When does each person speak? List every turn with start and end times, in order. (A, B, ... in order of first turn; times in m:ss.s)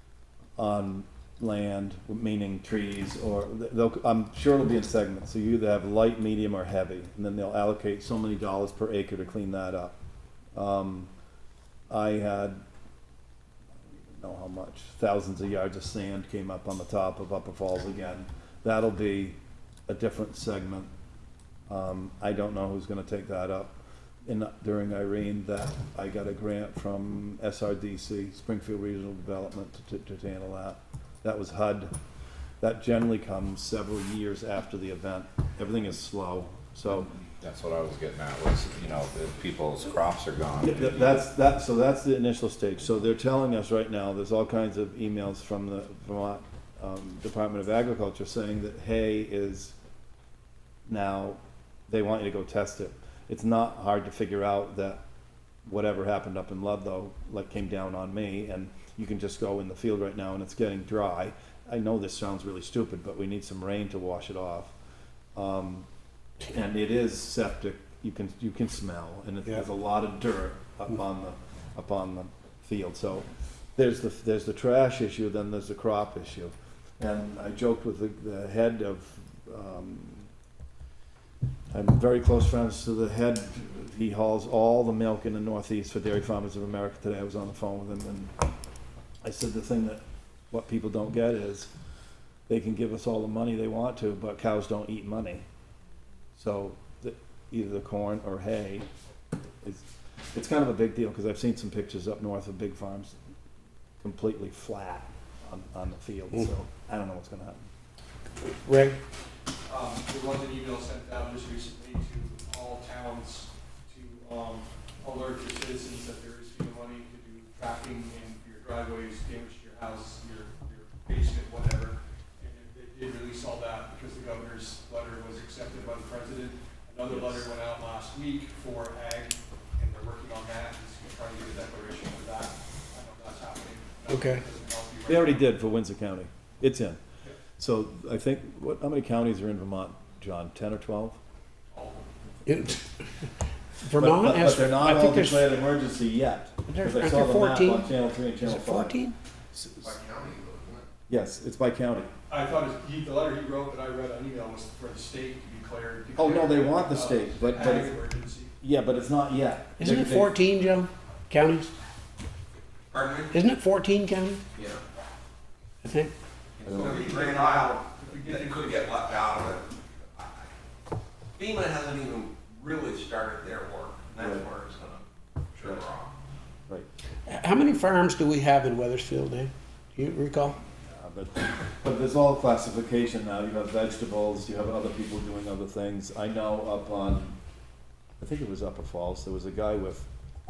0:00.6-0:10.0 A
0:10.6-0:11.1 A
0:11.9-0:12.6 A
0:13.9-0:20.9 A
0:21.7-0:31.9 A
0:32.6-0:37.1 A
0:37.4-0:41.2 B
0:40.6-0:49.8 A
0:50.9-0:55.0 A
0:55.6-1:04.7 A
1:05.4-1:05.9 A
1:06.5-1:20.3 A
1:21.7-1:28.3 A
1:29.2-1:31.7 A
1:32.5-1:35.4 A
1:36.4-1:38.9 A
1:39.6-1:43.2 A
1:44.0-1:47.7 A
1:48.6-1:49.0 C
1:49.7-2:15.5 D
2:14.1-2:14.4 C
2:15.1-2:17.0 A
2:17.6-2:21.2 A
2:21.7-2:22.1 D
2:22.5-2:22.8 C
2:23.8-2:25.5 C
2:24.0-2:29.0 A
2:26.7-2:29.2 C
2:29.6-2:29.9 A
2:29.8-2:30.9 E
2:31.1-2:32.1 A
2:32.3-2:38.5 D
2:36.2-2:38.0 A
2:38.6-2:40.4 A
2:39.8-2:41.7 C
2:42.9-2:43.3 E
2:43.3-2:44.4 C
2:44.6-2:44.8 E
2:45.8-2:46.1 C
2:46.6-2:50.5 E
2:46.6-2:49.1 D
2:46.6-2:47.0 A
2:51.4-2:56.1 E
2:54.2-2:54.5 A
2:57.3-3:00.6 C
3:00.9-3:07.4 A
3:08.2-3:10.1 A